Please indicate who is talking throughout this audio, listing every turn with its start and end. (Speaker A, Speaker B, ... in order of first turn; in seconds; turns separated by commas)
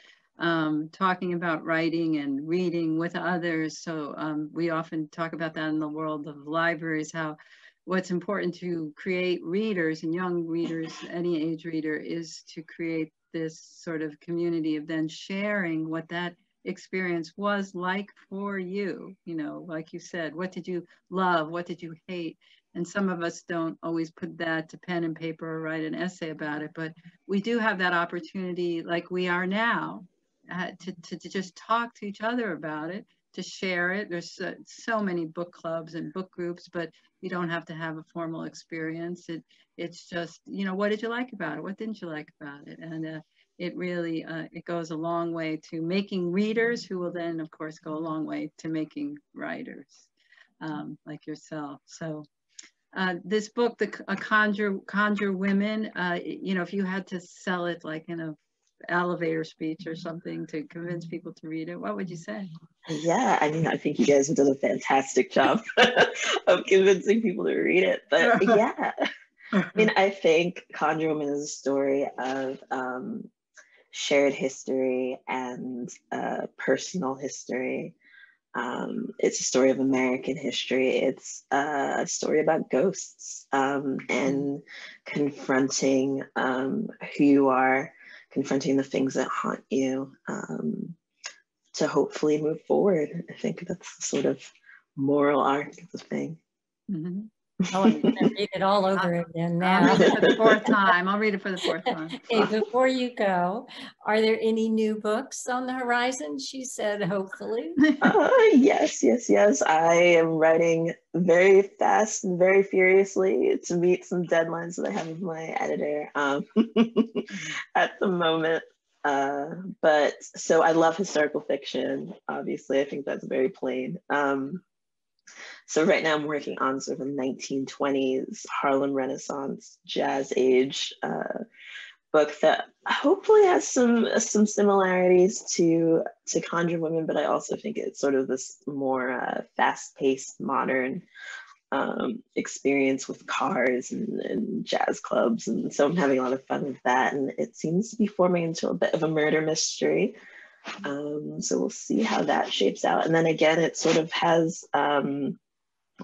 Speaker A: 0.4-50.1, Speaker A: 50.6-52.3, Speaker A: 52.9-58.4, Speaker A: 58.9-62.5, Speaker B: 62.9-69.1, Speaker A: 68.2-68.6, Speaker A: 69.5-69.9, Speaker B: 69.8-73.3, Speaker B: 73.9-78.0, Speaker B: 78.5-91.0, Speaker B: 91.7-96.4, Speaker A: 96.9-97.3, Speaker B: 97.6-98.3, Speaker C: 97.7-100.4, Speaker A: 99.6-102.5, Speaker B: 99.8-100.3, Speaker C: 102.2-107.8, Speaker A: 107.8-108.1, Speaker B: 108.0-124.6, Speaker A: 117.3-117.6, Speaker B: 125.7-131.4, Speaker B: 132.1-141.1, Speaker B: 141.7-150.2, Speaker B: 150.8-155.4